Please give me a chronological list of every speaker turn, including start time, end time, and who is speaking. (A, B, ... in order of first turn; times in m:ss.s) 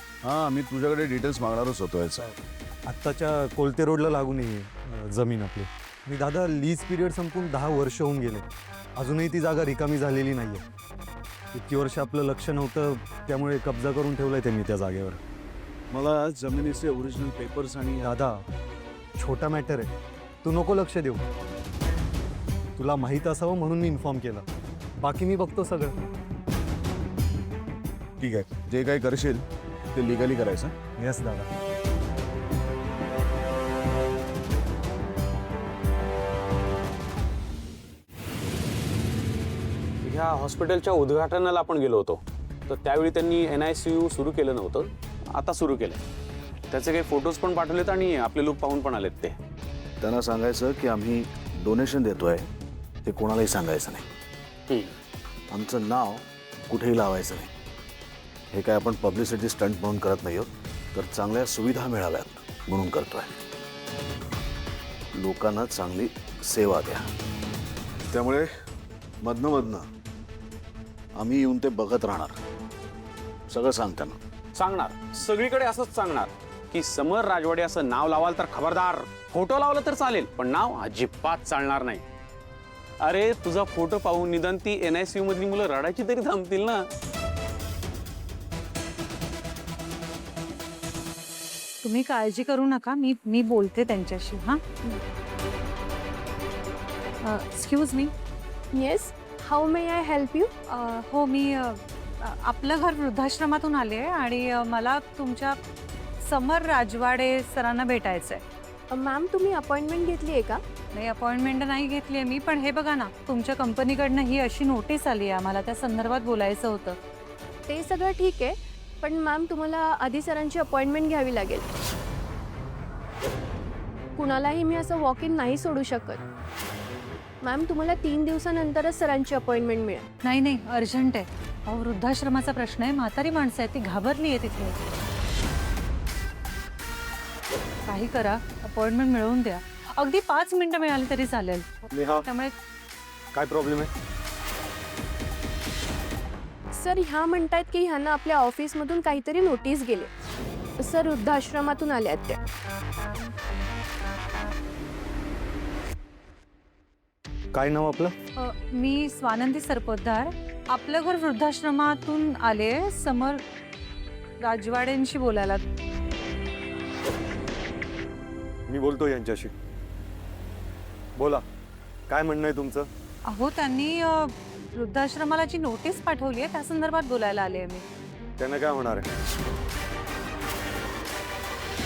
0:00.2-0:02.3 A
0:02.9-0:08.4 B
0:09.0-0:10.6 B
0:11.5-0:15.2 B
0:15.9-0:18.1 A
0:18.0-0:18.4 B
0:19.2-0:19.9 B
0:20.4-0:21.2 B
0:22.8-0:24.4 B
0:25.0-0:25.9 B
0:28.2-0:30.7 A
0:31.0-0:31.5 B
0:40.0-0:46.0 C
0:46.7-0:49.3 C
0:50.0-0:52.5 A
0:53.0-0:54.1 A
0:55.5-0:57.5 A
0:58.5-1:03.3 A
1:05.1-1:07.1 A
1:08.1-1:08.5 A
1:09.2-1:09.8 A
1:11.2-1:12.4 A
1:13.5-1:14.2 A
1:14.5-1:22.0 C
1:23.0-1:26.9 C
1:31.8-1:34.8 D
1:37.2-1:38.1 D
1:38.7-1:40.5 E
1:40.7-1:45.6 D
1:46.2-1:48.4 D
1:48.9-1:50.6 E
1:50.9-1:57.0 D
1:57.7-2:01.7 E
2:04.2-2:06.2 E
2:07.4-2:10.0 E
2:10.2-2:14.8 D
2:17.8-2:22.5 D
2:21.9-2:22.2 B
2:23.3-2:23.9 B
2:26.7-2:30.1 E
2:30.8-2:32.4 E
2:37.5-2:38.1 B
2:38.4-2:43.4 D
2:44.4-2:45.6 D
2:48.7-2:49.5 B
2:51.2-2:51.4 B
2:52.1-2:52.9 B
2:53.3-2:57.8 D
2:58.4-2:59.0 B